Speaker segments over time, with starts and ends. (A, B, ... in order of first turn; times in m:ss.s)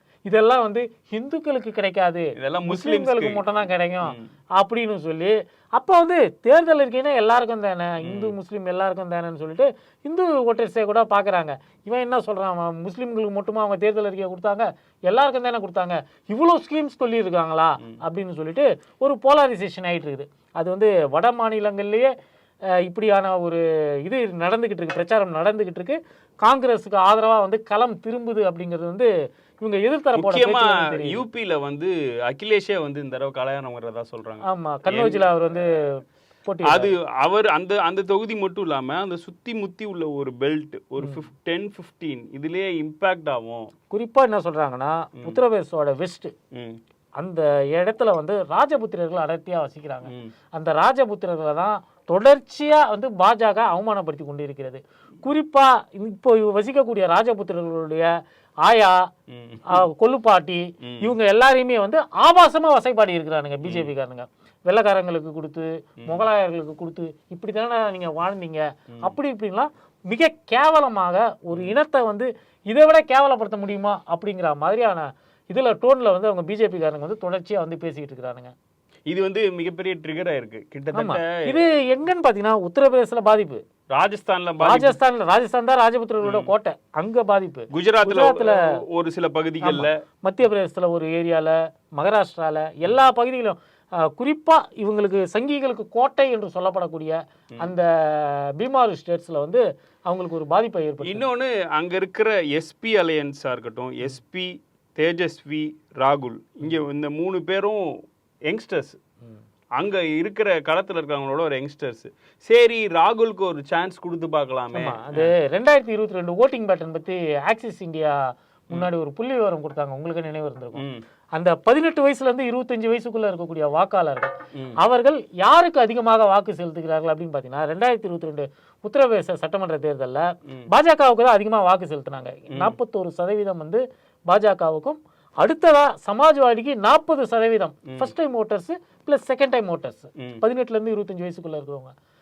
0:00.3-0:22.1 A
0:02.4-0:03.4 B
0:04.0-0:04.3 B
0:08.0-0:08.4 B
0:22.7-0:29.1 A
0:29.6-0:31.2 A
0:30.1-0:35.3 B
0:34.4-0:36.9 A
0:36.6-0:43.7 B
0:43.9-0:46.3 A
0:46.5-0:46.8 B
0:47.2-0:58.1 A
0:50.1-0:50.3 B
0:58.6-0:59.0 A
0:59.3-0:59.8 B
0:59.7-1:18.5 A
1:00.8-1:01.1 B
1:03.6-1:03.9 B
1:19.1-1:21.6 B
1:20.9-1:23.6 A
1:23.9-1:25.0 B
1:24.6-1:28.7 A
1:26.2-1:26.5 B
1:27.7-1:30.0 B
1:29.6-1:41.2 A
1:41.0-1:49.0 B
1:49.8-1:55.3 B
1:54.7-2:00.8 A
2:00.8-2:01.0 B
2:01.3-2:21.9 A
2:12.5-2:12.8 B
2:17.9-2:18.1 B